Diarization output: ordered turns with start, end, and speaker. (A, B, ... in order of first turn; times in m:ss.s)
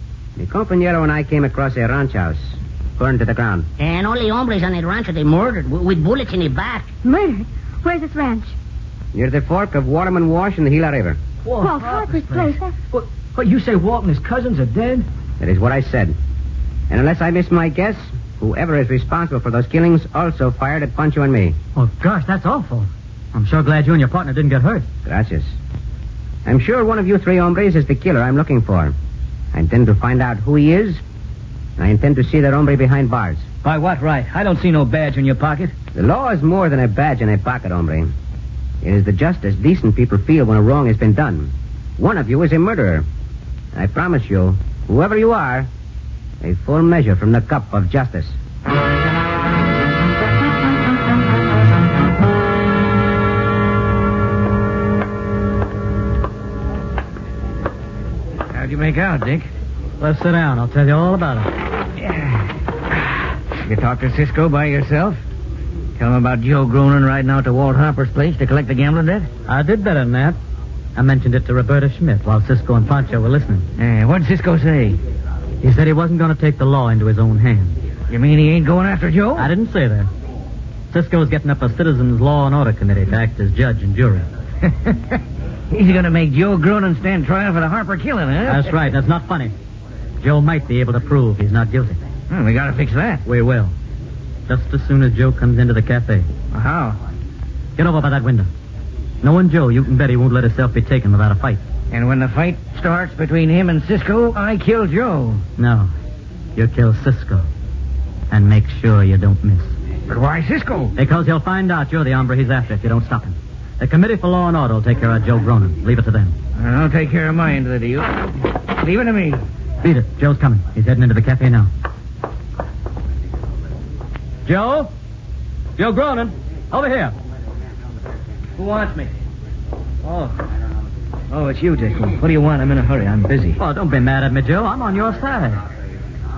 0:00.4-0:03.7 A
0:03.8-0:06.9 B
0:07.0-0:08.6 C
0:09.1-0:11.2 A
0:11.4-0:15.1 D
0:11.6-0:12.7 C
0:15.4-0:16.2 A
0:16.9-0:21.6 A
0:21.8-0:24.9 E
0:25.0-0:25.6 A
0:26.4-0:29.0 A
0:29.5-0:31.0 A
0:31.8-0:33.4 A
0:33.6-0:35.7 D
0:36.0-0:38.1 A
0:38.8-0:43.1 A
0:43.7-0:45.7 A
0:46.4-0:48.4 A
0:58.5-0:59.5 F
1:00.0-1:01.5 E
1:02.0-1:02.4 F
1:03.6-1:05.2 F
1:06.0-1:09.3 F
1:09.5-1:10.4 E
1:11.0-1:13.6 E
1:13.8-1:15.0 F
1:15.6-1:17.8 E
1:18.1-1:19.5 F
1:19.4-1:20.1 E
1:20.9-1:24.3 E
1:25.7-1:28.8 F
1:28.5-1:29.5 E
1:30.2-1:32.0 E
1:32.3-1:33.2 F
1:33.2-1:33.7 E
1:34.5-1:36.3 E
1:36.5-1:37.0 F
1:37.8-1:38.5 E
1:39.2-1:41.6 E
1:41.9-1:45.4 F
1:45.6-1:45.9 E
1:46.6-1:47.5 E
1:48.3-1:49.8 E
1:50.1-1:50.9 F
1:51.0-1:56.4 E
1:56.6-1:59.4 F
1:59.8-2:01.7 E
2:04.4-2:04.9 E
2:05.8-2:07.1 E
2:08.6-2:09.1 D
2:10.0-2:10.4 D
2:11.3-2:13.6 D
2:13.6-2:15.6 E